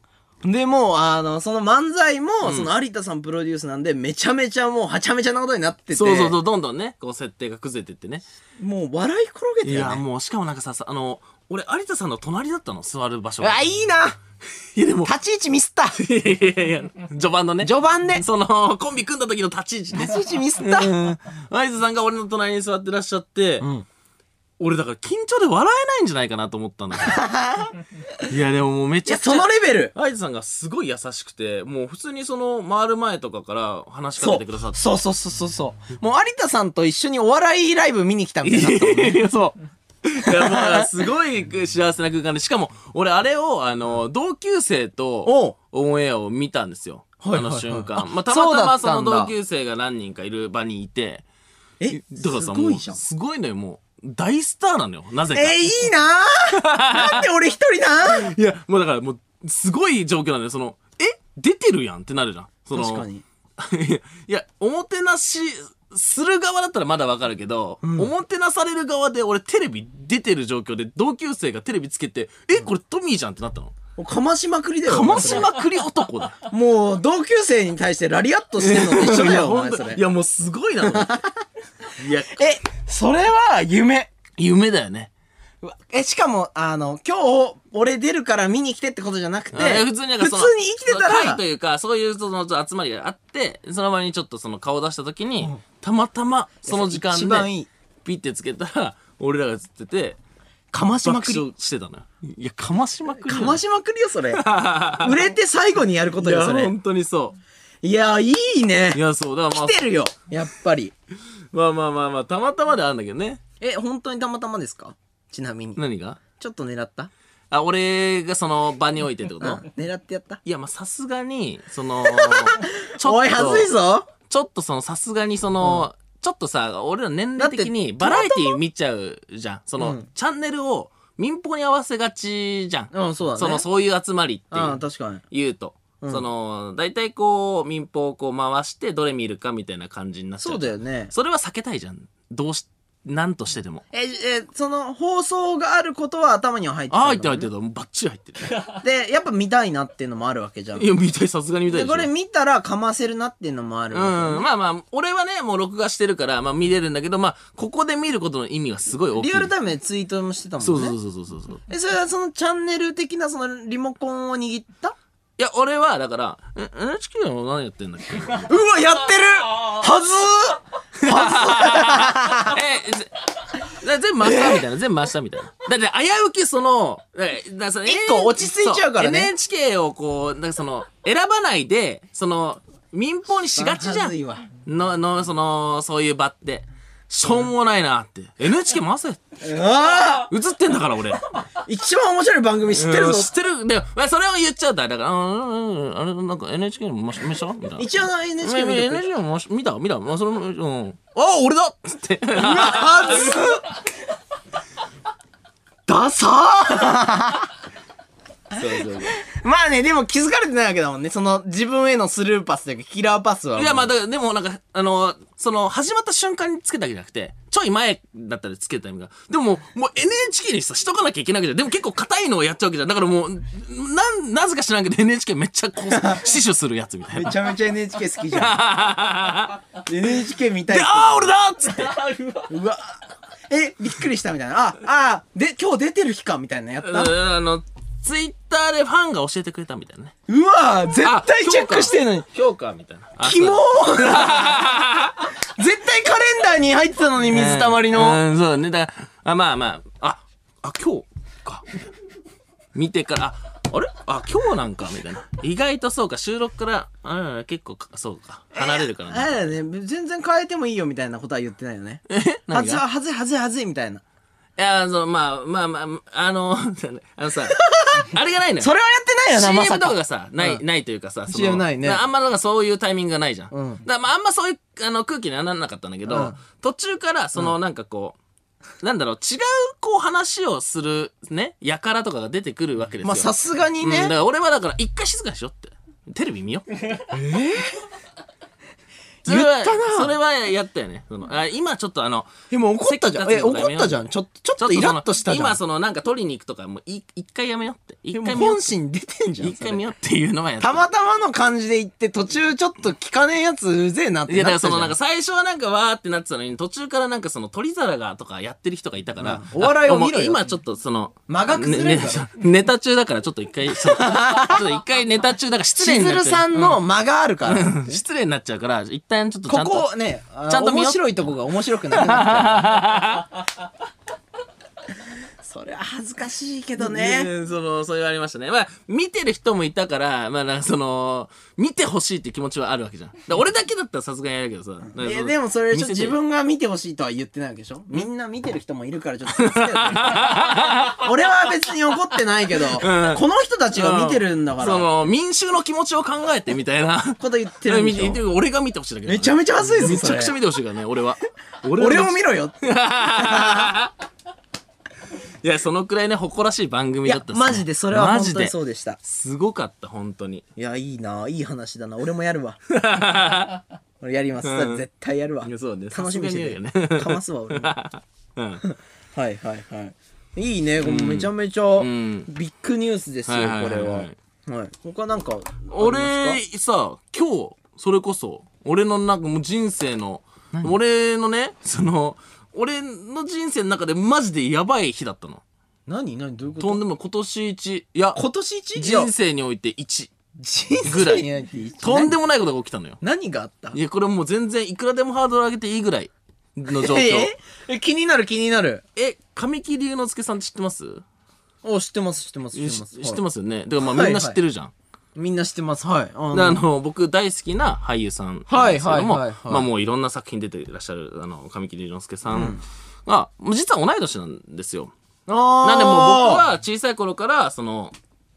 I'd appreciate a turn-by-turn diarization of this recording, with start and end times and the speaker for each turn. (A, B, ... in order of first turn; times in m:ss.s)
0:00.4-0:06.3 A
0:02.4-0:02.7 B
0:05.9-0:08.2 B
0:08.6-0:10.0 A
0:09.6-0:13.6 B
0:13.4-0:14.2 A
0:14.7-0:15.1 B
0:15.0-0:16.0 A
0:15.9-0:23.7 B
0:17.6-0:18.2 A
0:19.9-0:20.9 A
0:23.6-0:23.9 A
0:24.6-0:27.2 B
0:27.0-0:28.2 A
0:28.3-0:34.8 B
0:29.0-0:29.9 A
0:34.2-0:39.5 A
0:38.4-0:39.5 B
0:40.0-0:51.2 B
0:40.2-0:40.9 A
0:45.2-0:45.5 A
0:47.2-0:49.3 A
0:51.8-0:53.0 A
0:51.9-0:55.6 B
0:55.3-0:58.3 A
0:56.5-0:57.2 B
0:58.0-1:03.1 B
1:02.7-1:03.2 A
1:03.6-1:13.7 B
1:07.8-1:08.1 A
1:14.0-1:15.5 A
1:14.9-1:16.4 B
1:16.4-1:20.0 A
1:18.6-1:21.2 B
1:20.8-1:21.3 A
1:21.9-1:22.4 B
1:22.3-1:24.1 A
1:24.4-1:25.1 B
1:25.6-1:31.4 A
1:29.5-1:37.5 B
1:36.7-1:37.7 A
1:38.0-1:40.2 B
1:40.7-1:41.4 A
1:41.0-1:43.6 B
1:43.2-1:44.4 A
1:44.3-1:45.2 B
1:45.0-1:46.7 A
1:46.2-1:47.4 B
1:47.8-1:50.9 A
1:48.9-1:49.8 B
1:51.5-1:53.4 B
1:53.6-1:55.8 A
1:55.8-1:56.2 B
1:56.3-1:57.1 A
1:57.5-1:59.6 B
1:59.4-2:00.4 A
2:00.4-2:14.8 B
2:02.0-2:04.1 A
2:07.4-2:08.6 A
2:09.8-2:10.0 A
2:12.9-2:13.6 A
2:14.5-2:15.2 A
2:15.3-2:23.8 B
2:20.4-2:21.1 A
2:23.9-2:27.5 A
2:26.9-2:28.7 B
2:28.7-2:30.9 A
2:30.8-2:32.1 B
2:31.7-2:34.4 A
2:33.9-2:39.5 B
2:39.2-2:40.9 A
2:40.6-2:41.6 B
2:41.7-2:44.9 A
2:45.4-2:48.5 B
2:48.5-2:52.6 A
2:51.0-3:09.2 B
2:54.2-2:54.6 A
2:57.8-2:59.3 A
3:03.6-3:04.5 A
3:09.4-3:10.3 A
3:10.3-3:11.3 B
3:11.6-3:13.3 A
3:12.7-3:17.9 B
3:17.8-3:19.0 A
3:18.4-3:23.4 B
3:22.3-3:23.8 A
3:25.9-3:27.5 A
3:28.5-3:29.1 B
3:29.1-3:33.9 A
3:33.6-3:47.4 B
3:46.0-3:46.2 A
3:47.1-3:48.6 A
3:48.3-3:49.6 B
3:49.8-3:51.3 A
3:50.7-3:52.4 B
3:52.4-3:57.1 A
3:56.8-4:00.1 B
4:00.3-4:02.3 A
4:01.0-4:05.3 B
4:03.2-4:04.7 A
4:05.4-4:08.2 A
4:07.3-4:11.6 B
4:12.7-4:19.5 B
4:18.5-4:24.0 A
4:22.1-4:22.8 B
4:24.6-4:28.7 B
4:27.6-4:30.6 A
4:29.3-4:38.2 B
4:31.3-4:32.0 A
4:33.5-4:33.8 A
4:36.1-4:36.3 A
4:38.8-4:46.7 B
4:43.0-4:44.1 A
4:47.1-4:47.8 A
4:49.2-4:54.0 B
4:49.2-4:50.1 A
4:52.5-4:55.6 A
4:54.6-4:58.6 B
4:58.1-4:59.8 A
4:59.4-5:00.8 B
5:00.6-5:04.9 A
5:04.3-5:16.8 B
5:09.2-5:10.4 A
5:11.3-5:12.2 A
5:13.8-5:14.6 A
5:15.8-5:18.0 A
5:17.4-5:19.9 B
5:19.5-5:22.6 A
5:20.5-5:21.3 B
5:21.9-5:23.3 B
5:25.4-5:27.3 A
5:26.8-5:36.2 B
5:35.0-5:44.9 A
5:39.3-5:41.0 B
5:42.8-5:43.2 B
5:43.7-5:53.9 B
5:47.2-5:48.2 A
5:49.0-5:50.3 A
5:51.7-5:52.6 A
5:53.1-5:53.7 A
5:55.4-6:00.4 B
5:57.0-5:59.0 A
6:00.6-6:02.6 A
6:02.7-6:03.6 B
6:04.0-6:07.7 A
6:04.4-6:04.8 B
6:05.4-6:08.6 B
6:08.6-6:16.4 A
6:10.8-6:12.3 B
6:13.2-6:14.2 B
6:15.7-6:25.4 B
6:25.9-6:26.8 A
6:26.6-6:28.2 B
6:28.1-6:29.1 A
6:28.8-6:30.1 B
6:30.4-6:32.1 A
6:30.8-6:31.2 B
6:31.8-6:33.0 B
6:33.0-6:33.8 A
6:33.7-6:37.3 B
6:36.7-6:38.8 A
6:39.0-6:41.0 B
6:41.6-6:43.2 A
6:42.5-6:44.7 B
6:43.8-6:44.4 A
6:45.2-6:46.6 A
6:46.3-6:54.9 B
6:48.5-6:49.7 A
6:52.3-6:52.6 A
6:55.3-6:56.4 A
6:55.6-6:57.9 B